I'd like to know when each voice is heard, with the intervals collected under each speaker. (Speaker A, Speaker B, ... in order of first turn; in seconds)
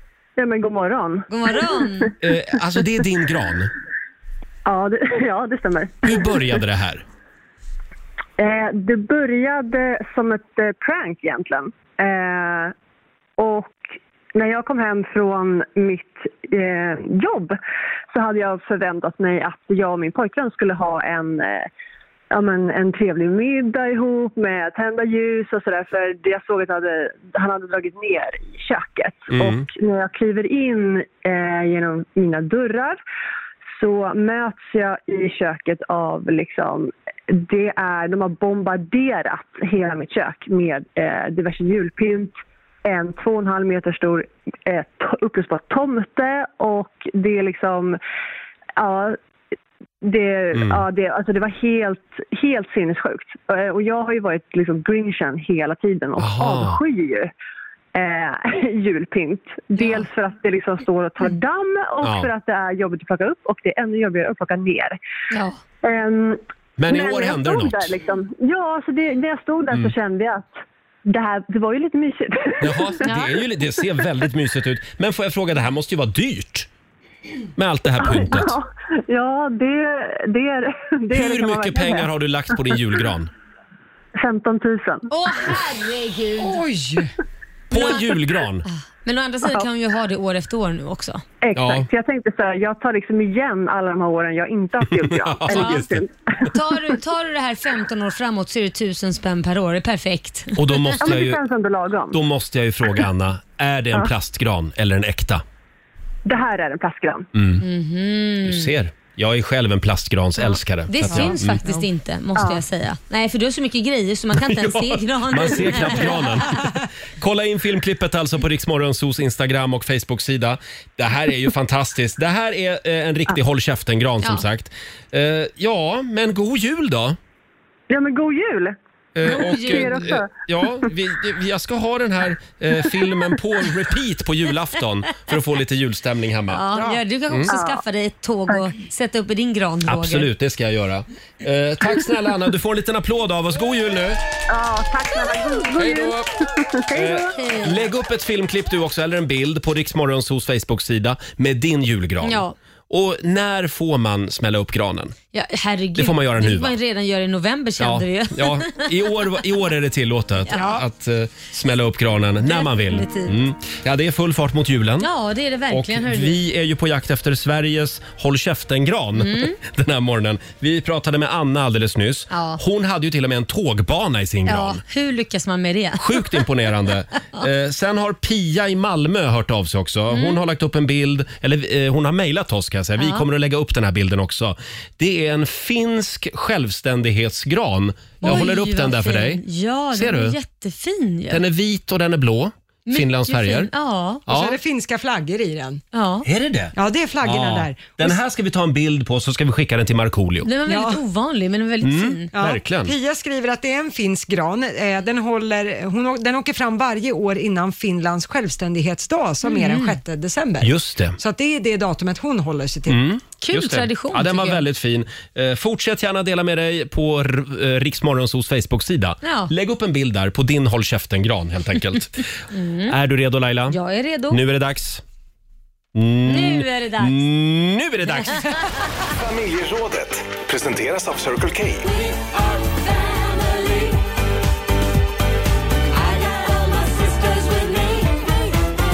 Speaker A: 0.3-1.2, 4.7-6.3, 8.4-12.7, 13.4-13.8, 14.3-17.6, 18.1-21.7, 22.3-33.0, 33.8-48.0, 48.8-49.1, 50.0-57.3, 57.9-65.0, 65.8-73.0, 78.0-82.1, 84.2-85.0, 91.4-96.1, 101.0-102.2, 106.2-107.2, 112.3-112.6, 127.9-128.7, 129.6-130.3, 137.5-137.8, 144.5-147.3
Speaker B: 1.3-2.1, 65.3-65.6, 73.0-73.3, 85.1-86.6, 87.7-88.0, 88.7-91.2, 95.5-95.8, 96.5-100.9, 107.6-108.7, 110.9-116.3, 129.2-130.1, 136.5-140.3, 147.4-147.8, 152.2-152.5, 155.3-158.9, 162.4-163.3, 165.0-166.4, 169.2-169.6, 172.3-172.6, 174.5-176.5, 180.1-180.4, 183.0-183.2, 188.2-191.4, 192.9-194.2, 195.9-196.2, 200.4-202.3, 209.4-210.0, 213.4-214.6, 219.2-219.5, 222.5-222.9, 223.7-224.4, 226.2-227.2, 237.2-237.9
Speaker C: 2.2-3.7, 6.0-7.0, 29.3-29.6, 50.5-50.8, 56.2-56.8, 62.0-62.3, 66.8-67.9, 72.6-76.7, 77.6-78.5, 81.1-83.3, 87.7-88.6, 91.5-91.9, 94.8-96.0, 100.5-101.4, 102.1-105.4, 107.3-107.6, 108.4-111.6, 114.3-116.7, 117.2-127.2, 129.1-136.6, 139.9-144.2, 145.8-146.3, 146.9-155.1, 155.9-156.8, 157.8-165.1, 165.7-174.8, 176.0-189.4, 189.9-190.3, 191.3-193.7, 194.3-194.6, 196.2-200.5, 201.8-202.9, 210.6-211.2, 212.9-222.3, 222.9-223.8, 224.3-225.0, 225.9-228.5
Speaker D: 86.4-87.1, 111.1-111.8, 160.5-160.8, 194.3-195.8, 196.8-198.2, 200.7-201.0, 202.3-213.0
Speaker E: 229.1-231.9